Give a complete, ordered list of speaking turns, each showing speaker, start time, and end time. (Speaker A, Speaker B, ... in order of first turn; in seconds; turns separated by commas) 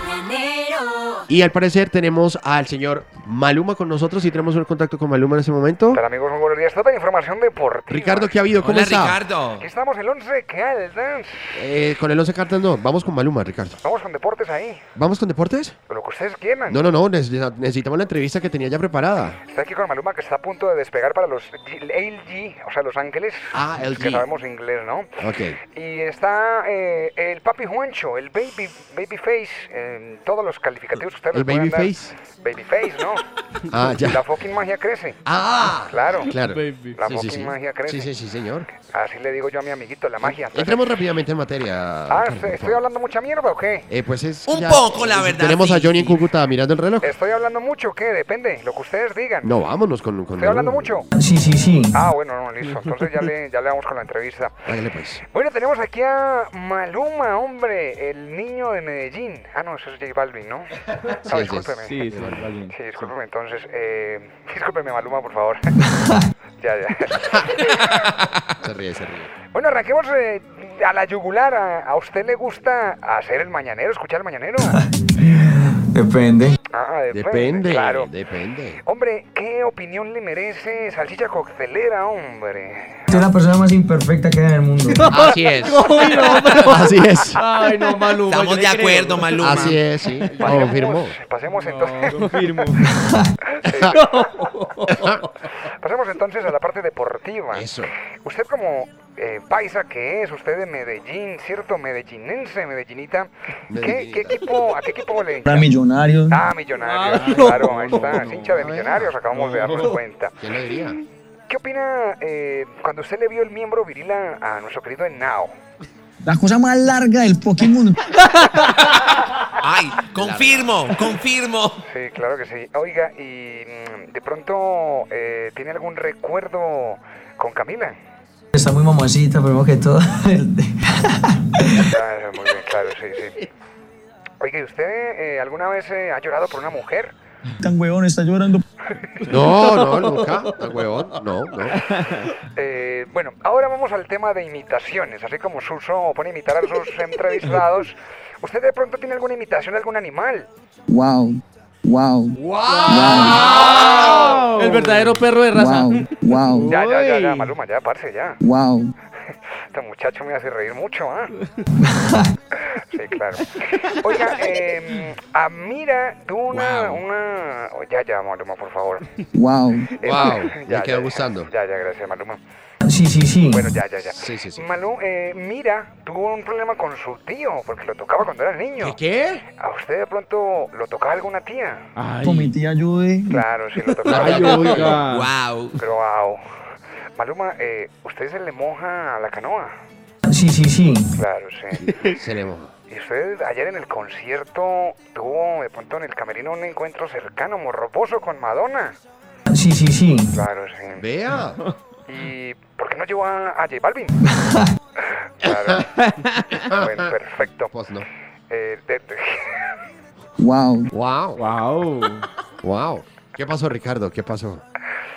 Speaker A: 1.3-6.0, Speaker B: 5.9-8.3, Speaker A: 7.9-9.2, Speaker C: 8.6-9.7, Speaker B: 9.6-11.6, Speaker A: 11.5-13.8, Speaker B: 13.8-14.8, Speaker A: 14.9-15.8, Speaker B: 15.9-16.8, Speaker A: 16.7-19.4, Speaker B: 19.5-25.2, Speaker A: 23.5-24.2, Speaker A: 25.2-25.6, Speaker B: 25.7-33.3, Speaker A: 31.3-32.2, Speaker A: 33.7-34.2, Speaker B: 33.9-35.2, Speaker A: 35.2-38.7, Speaker B: 35.8-36.4, Speaker D: 36.4-37.0, Speaker B: 36.9-38.1, Speaker B: 38.7-41.0, Speaker A: 40.2-42.8, Speaker B: 42.1-43.9, Speaker A: 43.9-47.1, Speaker C: 44.5-46.2, Speaker B: 47.0-49.6, Speaker A: 49.4-51.0, Speaker B: 50.3-51.1, Speaker E: 51.1-52.0, Speaker B: 51.9-54.6, Speaker A: 54.7-55.2, Speaker B: 55.2-65.8, Speaker A: 61.3-62.5, Speaker D: 61.8-62.9, Speaker B: 66.6-68.0, Speaker A: 68.6-69.3, Speaker B: 69.5-74.8, Speaker E: 74.6-76.6, Speaker B: 76.7-78.1, Speaker A: 77.1-78.8, Speaker B: 78.8-83.3, Speaker E: 83.1-85.1, Speaker D: 85.0-90.7, Speaker A: 85.1-87.4, Speaker C: 88.2-89.8, Speaker A: 89.4-91.2, Speaker B: 90.3-92.5, Speaker D: 91.6-92.9, Speaker B: 93.5-94.5, Speaker A: 93.7-94.0, Speaker D: 93.8-95.1, Speaker A: 94.9-95.2, Speaker B: 95.7-105.7, Speaker A: 97.5-97.9, Speaker A: 103.7-104.4, Speaker E: 105.5-106.4, Speaker B: 106.3-110.4, Speaker D: 106.8-108.5, Speaker A: 107.9-109.2, Speaker D: 109.3-110.0, Speaker A: 110.4-111.0, Speaker B: 111.5-115.5, Speaker E: 116.2-118.0, Speaker C: 119.6-121.8, Speaker A: 120.1-120.9, Speaker B: 121.9-128.0, Speaker E: 128.5-131.8, Speaker B: 131.7-133.5, Speaker B: 134.4-137.1, Speaker E: 137.6-138.6, Speaker B: 138.9-139.3, Speaker A: 139.2-141.8, Speaker D: 139.3-140.7, Speaker D: 141.9-142.3, Speaker B: 142.2-150.5, Speaker E: 150.9-153.4, Speaker D: 152.6-157.5, Speaker A: 152.6-154.8, Speaker B: 153.2-155.0, Speaker E: 155.5-156.7, Speaker B: 156.6-158.4, Speaker E: 158.4-158.9, Speaker B: 159.7-161.3, Speaker E: 161.9-162.2, Speaker B: 162.6-169.1, Speaker C: 166.5-167.0, Speaker E: 169.3-169.9, Speaker B: 169.9-172.4, Speaker A: 170.0-171.5, Speaker E: 172.8-173.7, Speaker B: 173.5-179.0, Speaker A: 174.1-174.7, Speaker C: 178.8-179.4, Speaker B: 179.6-181.9, Speaker D: 181.9-182.5, Speaker E: 182.2-183.4, Speaker B: 183.3-185.0, Speaker D: 184.0-185.3, Speaker A: 184.0-185.0, Speaker C: 184.7-185.8, Speaker B: 185.8-186.4, Speaker B: 187.2-189.7, Speaker E: 190.2-191.1, Speaker B: 191.1-192.1, Speaker A: 191.8-192.7, Speaker B: 192.9-198.9, Speaker E: 199.5-200.3, Speaker B: 200.3-201.1, Speaker A: 201.0-201.6, Speaker B: 202.1-204.1, Speaker E: 204.4-204.6, Speaker B: 205.4-205.9, Speaker B: 206.6-207.8, Speaker A: 206.7-207.1, Speaker A: 207.7-208.1, Speaker B: 208.5-209.8, Speaker E: 210.4-210.9, Speaker A: 210.9-211.4, Speaker D: 211.4-212.3, Speaker A: 212.6-214.6